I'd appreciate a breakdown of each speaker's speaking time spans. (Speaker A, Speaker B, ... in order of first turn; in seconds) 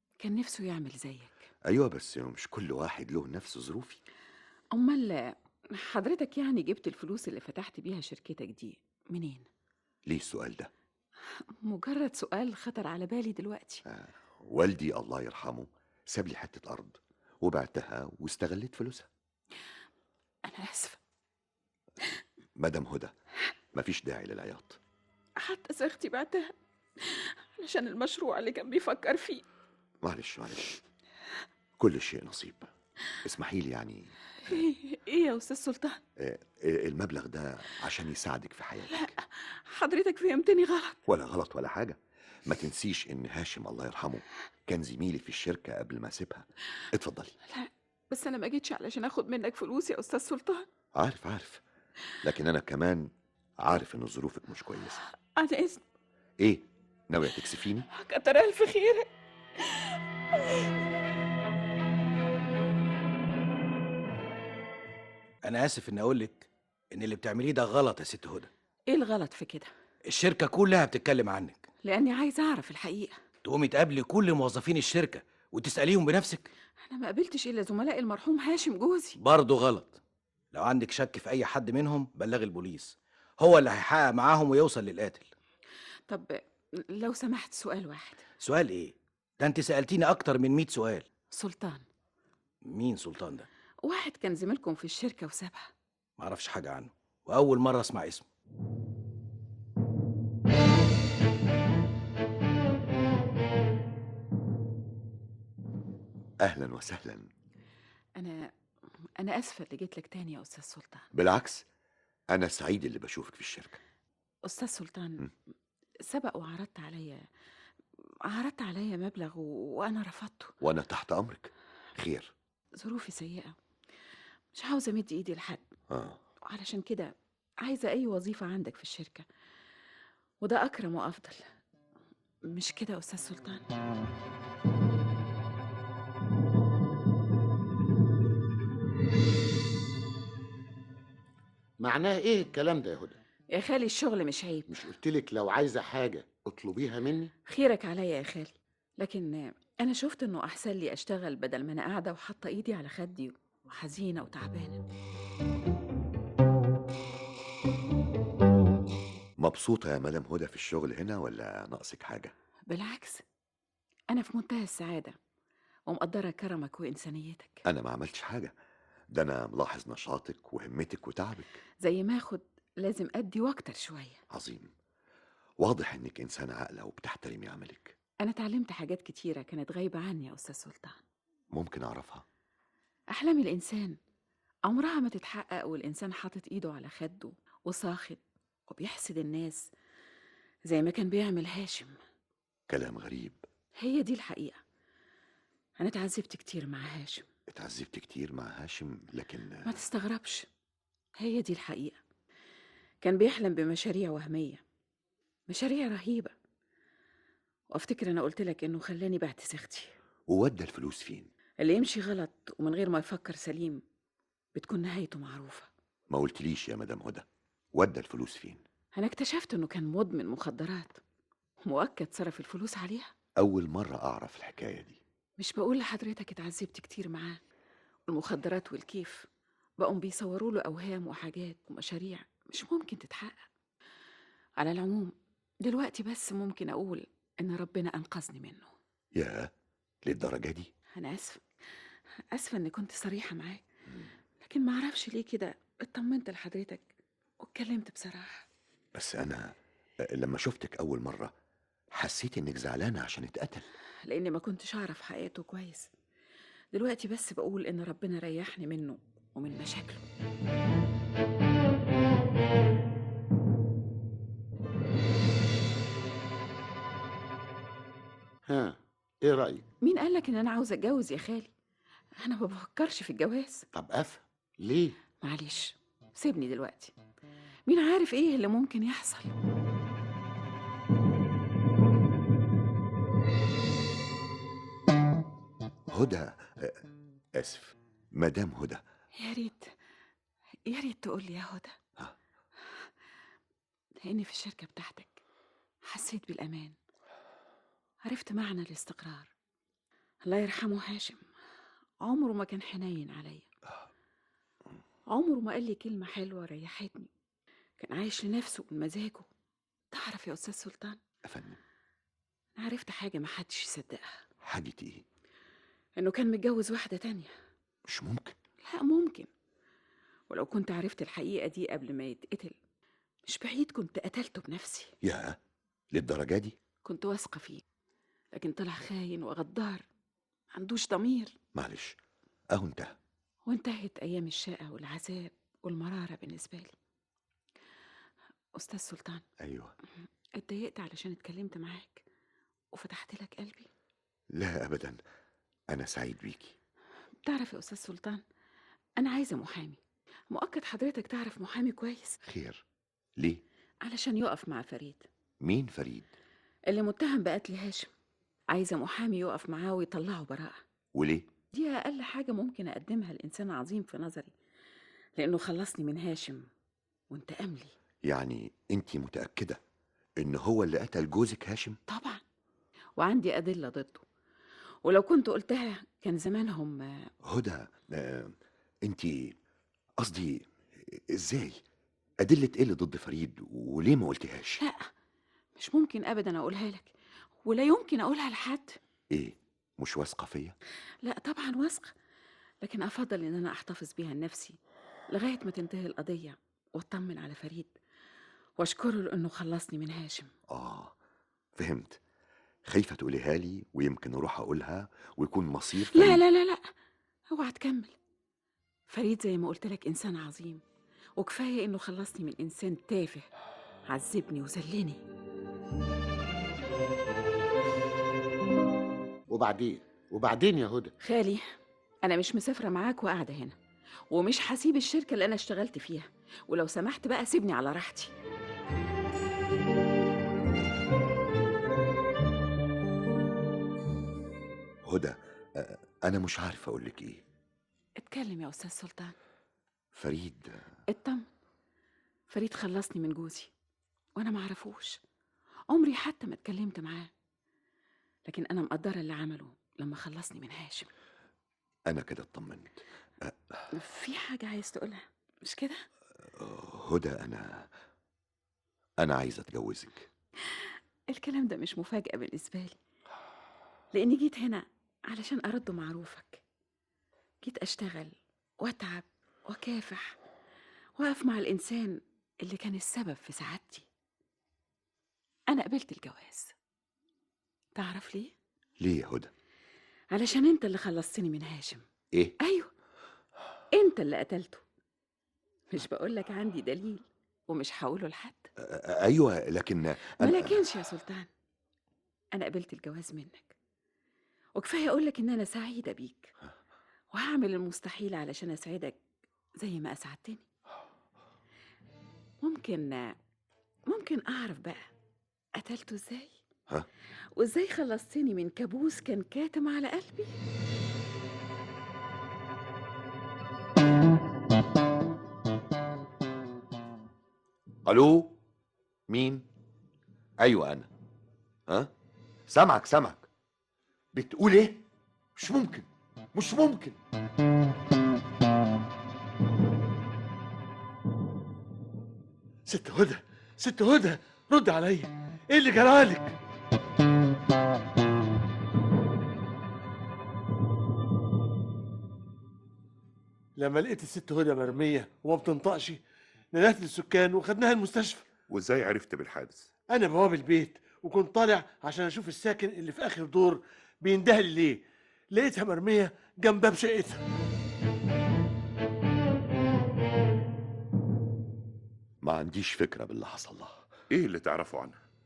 Speaker A: 0.2-1.4, 4.7-9.5, 11.6-13.8, 20.4-21.0, 25.4-29.4, 34.4-36.0, 38.9-41.0, 47.5-50.7, 55.4-55.8, 57.9-60.7, 68.9-69.7, 71.8-73.2, 76.8-79.2, 86.1-88.2, 91.3-91.8, 93.8-95.7, 108.2-108.5, 109.2-111.1, 114.4-115.2, 116.0-117.2, 118.2-120.5, 122.8-123.5, 124.5-125.6, 126.5-129.3, 130.4-131.4, 132.5-133.7, 143.5-144.8, 147.5-154.8, 162.7-163.2, 164.1-165.2, 165.9-167.6, 171.8-174.2, 178.2-181.0, 183.1-184.0, 184.7-189.7, 190.7-192.0, 193.8-194.6, 195.8-197.3, 199.7-200.5, 201.2-202.0, 203.0-204.6, 205.5-206.3, 207.7-209.9, 211.6-213.8, 214.6-215.7, 218.9-221.0, 221.7-223.1, 225.4-227.4, 228.1-229.3, 229.8-233.4, 234.6-238.7, 240.9-241.4, 242.3-243.6, 244.4-246.9, 247.4-248.5, 254.1-255.9, 256.7-260.0, 269.8-271.5, 272.2-273.7, 275.2-276.9, 277.7-279.3, 289.2-289.7, 290.7-291.8, 294.0-295.2, 295.9-296.8, 298.1-299.3, 300.2-301.2, 302.0-303.5, 305.1-307.1, 307.8-309.3, 309.9-311.0, 312.6-314.2, 316.0-317.3, 318.6-319.3, 320.3-322.6, 323.3-324.9, 326.8-327.6, 328.3-329.8, 330.6-331.4, 333.5-336.8, 338.6-339.2, 340.4-342.1, 342.7-343.7, 347.2-348.2, 349.0-352.2, 353.8-355.1, 356.7-357.9, 358.5-360.6, 361.5-364.3, 365.2-366.5, 367.1-367.7, 371.9-372.2, 373.0-374.1, 374.9-377.1, 384.6-384.9, 385.6-386.9, 387.4-388.8, 391.0-391.9, 392.6-394.6, 395.1-397.7, 398.6-400.3, 405.8-406.6, 407.3-408.0, 408.9-410.6, 411.2-413.3, 413.9-415.0, 421.0-421.4, 422.0-423.6, 424.1-428.1, 438.0-439.1, 440.9-441.3, 442.3-443.5, 444.2-445.0, 445.7-447.1, 448.3-450.9, 453.7-455.8, 460.5-462.8, 463.9-466.4, 467.4-470.2, 471.0-473.9, 475.5-476.6, 477.8-478.3, 480.1-481.8, 482.4-482.7, 483.7-484.6, 485.7-488.5, 490.2-491.3, 492.3-493.6, 494.6-496.3, 497.1-499.0, 499.6-500.4, 502.4-503.2, 503.9-504.8, 505.6-506.3, 507.4-510.3
Speaker B: 1.7-4.0, 10.1-10.7, 13.9-19.1, 22.6-23.1, 23.7-24.8, 30.0-30.8, 31.8-32.7, 33.2-34.6, 36.2-39.1, 41.1-47.3, 50.9-51.6, 52.2-55.0, 56.4-57.9, 106.4-107.3, 111.1-111.7, 112.3-113.8, 120.6-122.3, 125.9-126.2, 159.4-162.3, 167.7-168.5, 169.1-171.6, 174.3-174.7, 175.6-177.9, 181.5-182.2, 192.7-193.4, 197.5-199.8, 210.3-211.3, 216.1-218.6, 223.4-225.0, 239.1-239.5, 240.0-240.7, 248.9-251.3, 251.9-253.7, 285.9-286.8, 287.4-288.8, 311.2-311.6, 314.4-315.1, 317.9-318.4, 325.0-325.4, 325.9-326.6, 331.5-332.0, 332.5-332.9, 339.4-339.7, 344.3-345.0, 345.7-346.6, 352.2-352.6, 355.4-356.1, 360.9-361.3, 368.0-369.6, 370.2-371.8, 377.2-379.4, 380.0-381.6, 382.2-384.6, 389.1-390.6, 400.5-400.9, 401.6-402.0, 402.6-406.2, 434.9-437.2, 439.9-440.7, 451.9-453.6, 456.2-457.7, 459.0-460.1, 478.8-479.3, 488.6-490.6, 517.9-518.4, 519.1-519.5, 520.4-520.9, 521.7-521.9, 522.5-523.3, 524.1-527.0, 562.2-563.9
Speaker C: 65.4-68.5, 70.1-71.7, 73.5-76.5, 79.2-80.0, 80.5-85.3, 88.4-91.0, 92.6-93.5, 96.2-98.2
Speaker D: 141.8-143.2, 144.7-147.3, 268.5-269.6, 273.7-275.0, 419.3-420.9
Speaker E: 532.7-536.4, 543.6-546.0, 546.5-548.3, 549.9-557.2
Speaker F: 548.5-549.7, 564.1-565.0